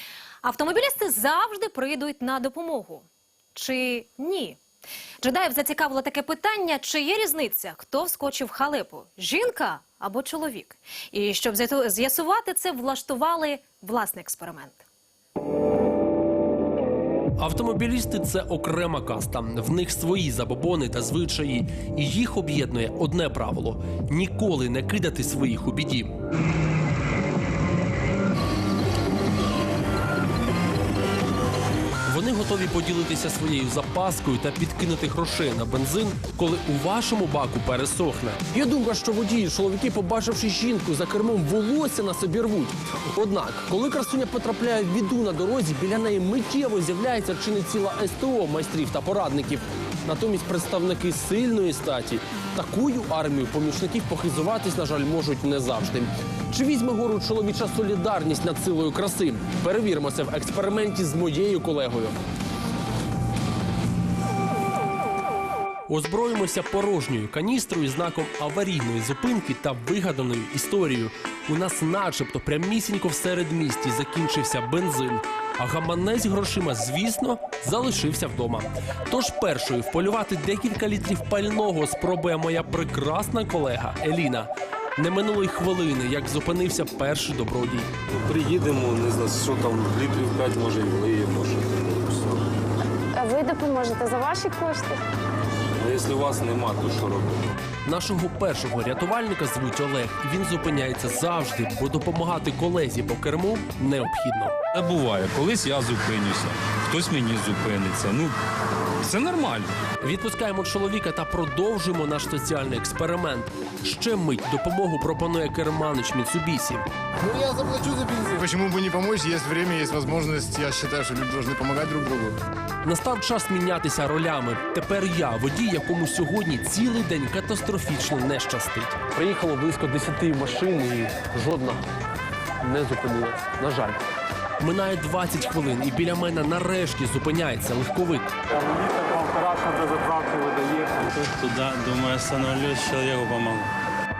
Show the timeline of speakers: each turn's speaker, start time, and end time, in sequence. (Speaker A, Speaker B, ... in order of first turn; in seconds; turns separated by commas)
Speaker A: 0.4-4.6, Speaker A: 5.2-14.8, Speaker B: 17.4-26.1, Speaker B: 32.0-62.2, Speaker B: 65.9-87.9, Speaker C: 88.3-92.4, Speaker D: 89.6-90.6, Speaker D: 91.5-92.1, Speaker D: 93.1-95.0, Speaker D: 95.8-97.5, Speaker C: 95.9-97.2, Speaker B: 97.8-104.5, Speaker E: 104.8-108.4, Speaker E: 109.0-109.7, Speaker B: 110.0-116.8, Speaker F: 117.3-122.4, Speaker B: 122.8-131.8, Speaker B: 132.6-134.0, Speaker B: 134.6-138.3, Speaker G: 138.5-143.7